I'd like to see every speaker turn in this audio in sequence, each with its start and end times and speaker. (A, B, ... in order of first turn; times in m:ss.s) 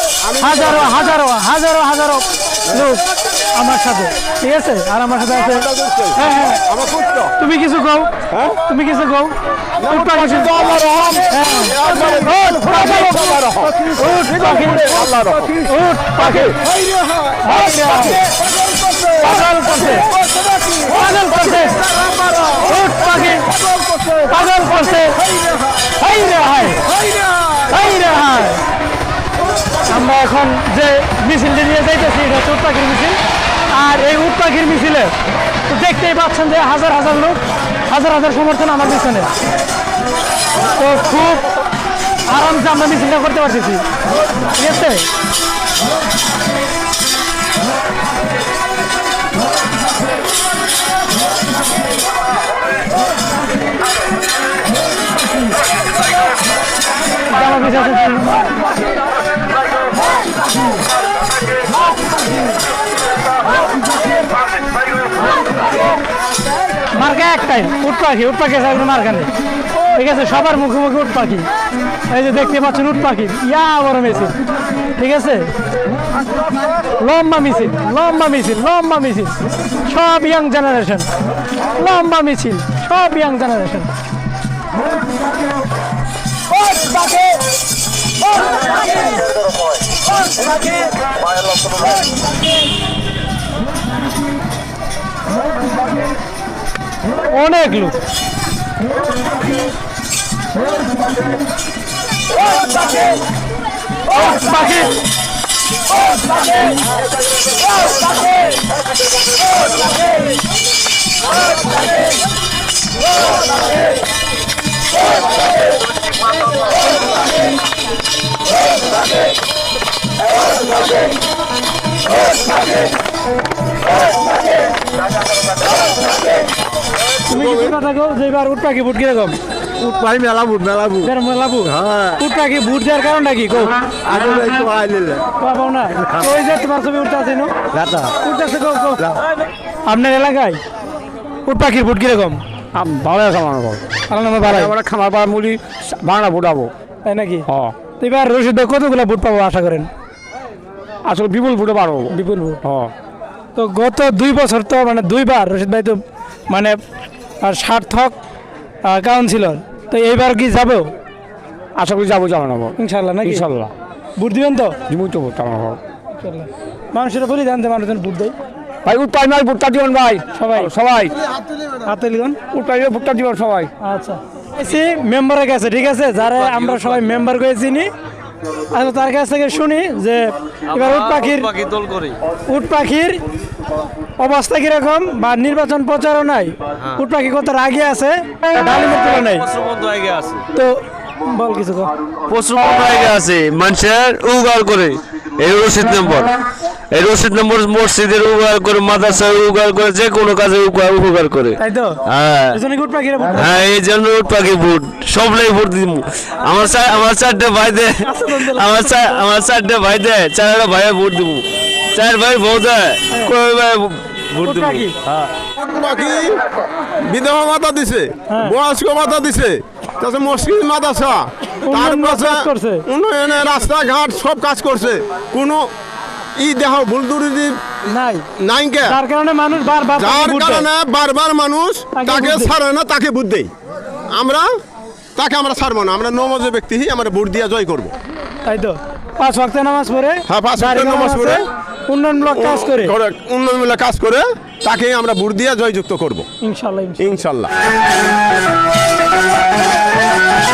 0:00.2-0:00.9 A
0:00.4-0:06.6 B
0:05.4-0:07.3 A
0:07.4-0:08.1 B
0:08.3-0:08.6 A
0:08.6-0:09.4 B
0:09.8-0:15.5 A
0:09.9-0:10.5 B
0:11.3-0:15.0 B
0:14.2-0:15.6 C
0:15.6-0:16.6 B
0:16.2-0:16.5 A
0:17.4-0:18.3 B
0:19.2-0:20.1 B
0:20.8-0:21.8 B
0:22.0-0:22.5 A
0:22.5-0:23.5 B
0:23.8-0:24.0 C
0:24.2-0:25.2 B
0:25.9-0:26.8 B
0:27.6-0:28.6 B
0:29.9-0:35.1 B
0:35.6-0:39.3 B
0:40.7-0:41.5 B
0:42.3-0:43.8 B
0:44.5-0:45.1 B
0:57.3-0:58.5 B
1:06.9-1:11.5 B
1:12.1-1:14.3 B
1:14.9-1:15.5 B
1:17.0-1:21.1 B
1:21.7-1:23.9 B
1:26.6-1:27.3 B
1:37.3-1:38.0 B
1:44.1-1:45.0 B
2:07.2-2:09.4 B
2:09.8-2:11.1 D
2:11.0-2:13.7 B
2:11.7-2:12.2 D
2:14.0-2:15.2 D
2:15.4-2:17.5 B
2:17.7-2:18.1 D
2:18.2-2:19.2 B
2:19.9-2:20.6 B
2:21.4-2:22.4 B
2:22.7-2:23.8 C
2:24.1-2:24.7 B
2:24.4-2:26.7 C
2:27.0-2:27.4 B
2:27.5-2:27.7 C
2:28.0-2:29.9 B
2:31.0-2:32.9 C
2:32.3-2:32.6 B
2:33.5-2:36.8 B
2:37.4-2:38.2 B
2:38.8-2:40.9 B
2:41.8-2:43.7 C
2:42.8-2:43.4 B
2:44.2-2:44.8 B
2:44.9-2:45.8 C
2:46.2-2:48.4 B
2:48.8-2:51.2 C
2:50.3-2:50.7 B
2:51.8-2:52.4 B
2:52.5-2:53.7 C
2:53.8-2:57.9 B
2:56.3-2:57.2 D
2:58.7-3:01.5 B
3:00.7-3:02.2 D
3:02.5-3:03.2 B
3:04.2-3:09.5 B
3:09.2-3:10.4 D
3:10.5-3:11.9 B
3:12.3-3:16.4 D
3:16.9-3:22.6 D
3:21.6-3:22.0 B
3:22.5-3:23.5 B
3:23.3-3:35.3 D
3:28.0-3:29.2 B
3:34.4-3:34.9 B
3:35.6-3:36.4 A
3:37.0-3:45.7 A
3:38.3-3:38.6 B
3:41.6-3:42.8 B
3:46.3-3:47.6 A
3:47.8-3:48.2 B
3:48.4-3:49.0 A
3:48.8-3:50.7 B
3:50.0-3:53.5 A
3:51.9-3:52.5 B
3:54.1-3:54.5 A
3:55.2-3:57.9 A
3:58.4-4:02.9 B
4:00.3-4:01.4 A
4:02.3-4:06.3 A
4:06.4-4:07.2 B
4:07.0-4:07.5 A